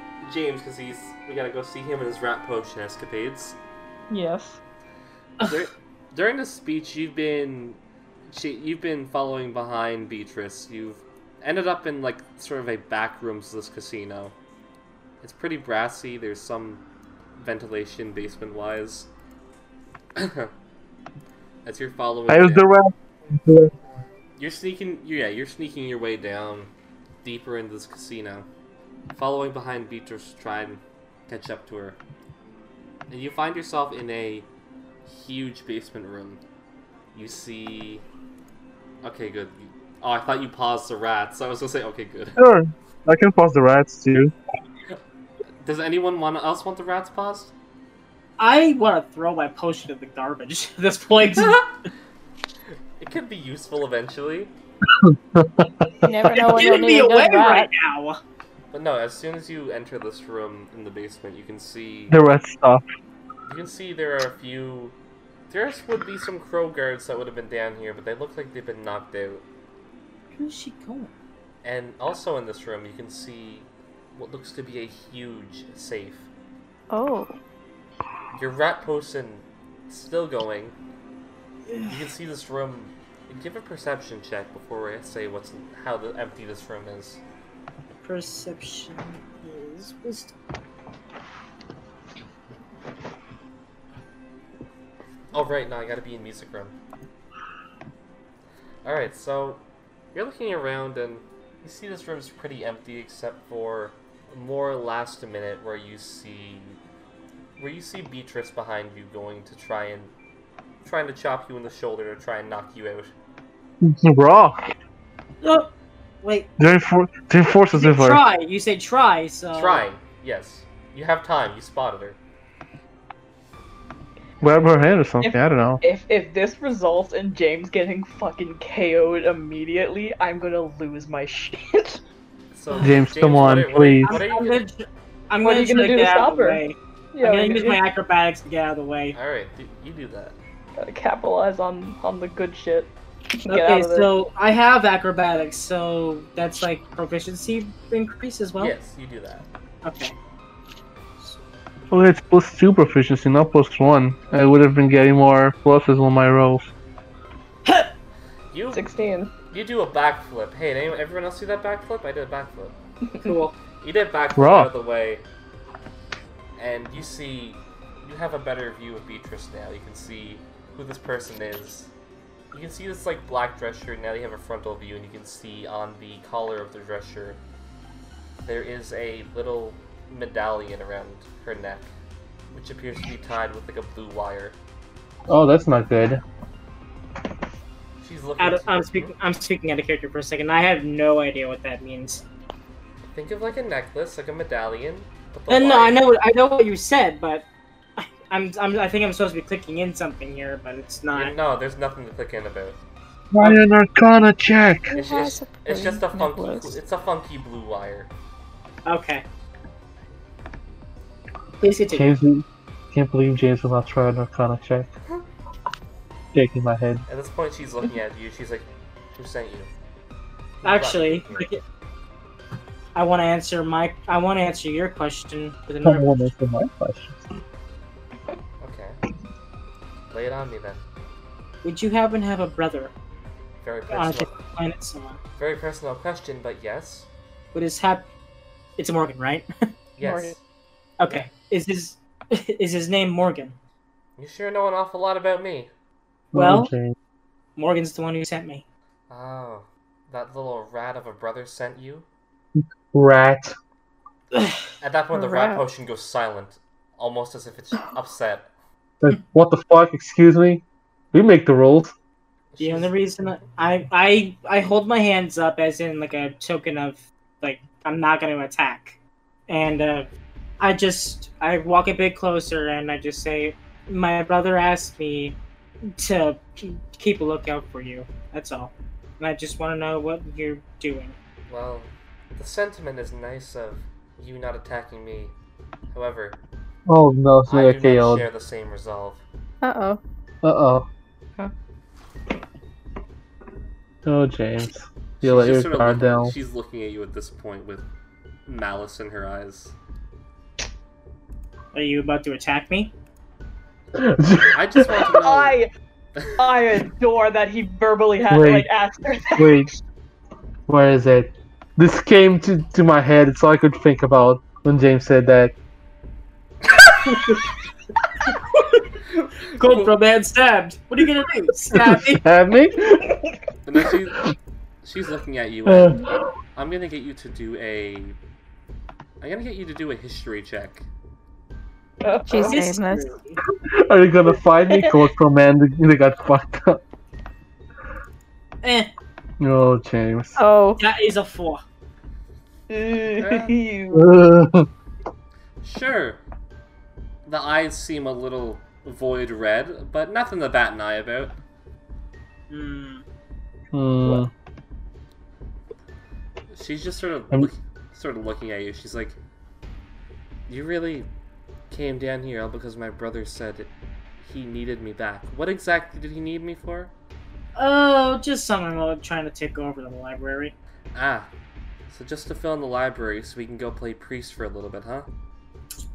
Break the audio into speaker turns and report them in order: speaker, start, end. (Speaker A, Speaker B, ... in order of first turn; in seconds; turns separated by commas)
Speaker A: 0.2-3.6, Speaker B: 4.1-4.6, Speaker C: 5.4-5.7, Speaker A: 5.5-14.3, Speaker A: 15.2-16.8, Speaker A: 17.4-19.1, Speaker A: 20.2-20.5, Speaker A: 21.6-22.7, Speaker D: 22.3-23.7, Speaker A: 24.4-26.7, Speaker A: 27.2-28.5, Speaker A: 29.1-32.0, Speaker A: 33.1-34.5, Speaker A: 35.1-36.4, Speaker A: 37.1-38.0, Speaker A: 39.0-42.4, Speaker D: 42.4-44.3, Speaker A: 45.6-47.5, Speaker C: 48.4-51.6, Speaker A: 53.0-54.5, Speaker D: 54.9-55.9, Speaker E: 56.0-57.7, Speaker C: 56.1-58.2, Speaker A: 58.7-62.2, Speaker D: 62.1-62.9, Speaker A: 63.5-65.0, Speaker A: 65.5-69.4, Speaker C: 70.3-71.1, Speaker A: 71.6-76.3, Speaker E: 76.9-77.3, Speaker A: 78.3-80.8, Speaker C: 81.7-82.0, Speaker A: 81.9-87.2, Speaker C: 88.0-90.3, Speaker A: 95.3-96.8, Speaker A: 98.8-99.6, Speaker A: 100.2-106.8, Speaker A: 107.6-110.1, Speaker A: 110.8-113.1, Speaker D: 113.8-114.6, Speaker C: 115.4-116.5, Speaker D: 116.6-118.2, Speaker C: 117.8-119.8, Speaker A: 119.5-122.2, Speaker D: 124.4-125.8, Speaker B: 125.2-132.0, Speaker A: 132.5-134.6, Speaker C: 132.7-133.0, Speaker D: 132.8-134.2, Speaker C: 134.1-139.2, Speaker B: 135.4-136.6, Speaker B: 137.1-137.8, Speaker A: 139.1-140.4, Speaker B: 140.8-142.9, Speaker B: 143.4-144.1, Speaker C: 143.5-148.7, Speaker A: 148.6-149.5, Speaker C: 149.8-150.2, Speaker D: 151.9-156.7, Speaker A: 158.5-158.9, Speaker B: 158.7-159.3, Speaker A: 159.5-162.8, Speaker B: 163.1-163.4, Speaker C: 163.2-163.5, Speaker A: 163.8-165.2, Speaker D: 164.4-164.7, Speaker A: 166.6-171.9, Speaker A: 172.5-177.4, Speaker A: 178.4-181.9, Speaker A: 182.5-184.6, Speaker D: 185.3-186.2, Speaker A: 188.0-189.1, Speaker C: 188.4-192.2, Speaker A: 193.1-196.0, Speaker C: 195.5-197.4, Speaker C: 198.0-201.4, Speaker A: 201.1-202.8, Speaker D: 203.3-204.9, Speaker E: 204.9-206.8, Speaker A: 204.9-208.1, Speaker C: 208.8-209.3, Speaker C: 211.6-212.1, Speaker D: 211.9-214.9, Speaker D: 216.3-217.0, Speaker A: 217.1-219.7, Speaker A: 220.6-221.5, Speaker C: 220.6-221.6, Speaker C: 222.9-226.2, Speaker D: 225.8-227.3, Speaker A: 228.6-229.0, Speaker A: 230.1-230.8, Speaker C: 231.6-232.9, Speaker A: 233.6-234.3, Speaker C: 233.9-235.2, Speaker A: 235.4-237.1, Speaker C: 237.5-238.1, Speaker C: 238.8-239.5, Speaker A: 240.0-240.4, Speaker B: 240.0-240.3, Speaker C: 241.0-243.6, Speaker A: 244.2-245.7, Speaker D: 246.3-246.9, Speaker C: 246.3-246.7, Speaker C: 247.6-248.6, Speaker A: 249.1-252.1, Speaker D: 252.6-253.5, Speaker A: 254.8-258.5, Speaker E: 255.1-255.6, Speaker D: 259.0-261.9, Speaker A: 262.5-262.9, Speaker C: 262.6-269.0, Speaker C: 269.5-275.4, Speaker C: 275.9-281.2, Speaker A: 281.5-285.3, Speaker A: 285.9-286.4, Speaker D: 286.9-288.2, Speaker A: 287.5-289.2, Speaker E: 289.6-290.0, Speaker D: 290.4-290.9, Speaker D: 294.1-296.3, Speaker A: 295.2-297.9, Speaker A: 298.5-299.8, Speaker C: 301.7-302.9, Speaker D: 304.0-304.9, Speaker A: 304.5-305.6, Speaker B: 305.2-305.7, Speaker B: 306.4-309.7, Speaker D: 308.3-308.7, Speaker D: 309.4-309.7, Speaker D: 310.7-315.5, Speaker C: 319.6-322.2, Speaker A: 319.6-319.9, Speaker D: 321.7-323.1, Speaker A: 323.6-324.2, Speaker A: 324.8-328.2, Speaker D: 325.7-326.3, Speaker A: 329.2-330.9, Speaker B: 332.0-332.6, Speaker E: 332.3-333.1, Speaker C: 332.4-333.4, Speaker D: 333.7-336.8, Speaker B: 334.7-335.0, Speaker C: 338.6-338.9, Speaker D: 339.4-340.4, Speaker E: 340.4-340.8, Speaker C: 340.8-341.6, Speaker B: 342.7-344.1, Speaker A: 343.2-343.6, Speaker D: 343.9-344.7, Speaker A: 345.6-346.2, Speaker A: 347.3-351.4, Speaker C: 352.5-353.0, Speaker D: 353.7-354.3, Speaker A: 356.5-359.2, Speaker A: 360.5-361.1, Speaker A: 361.7-363.7, Speaker A: 364.2-366.9, Speaker C: 367.6-370.5, Speaker A: 370.9-371.3, Speaker A: 371.9-375.1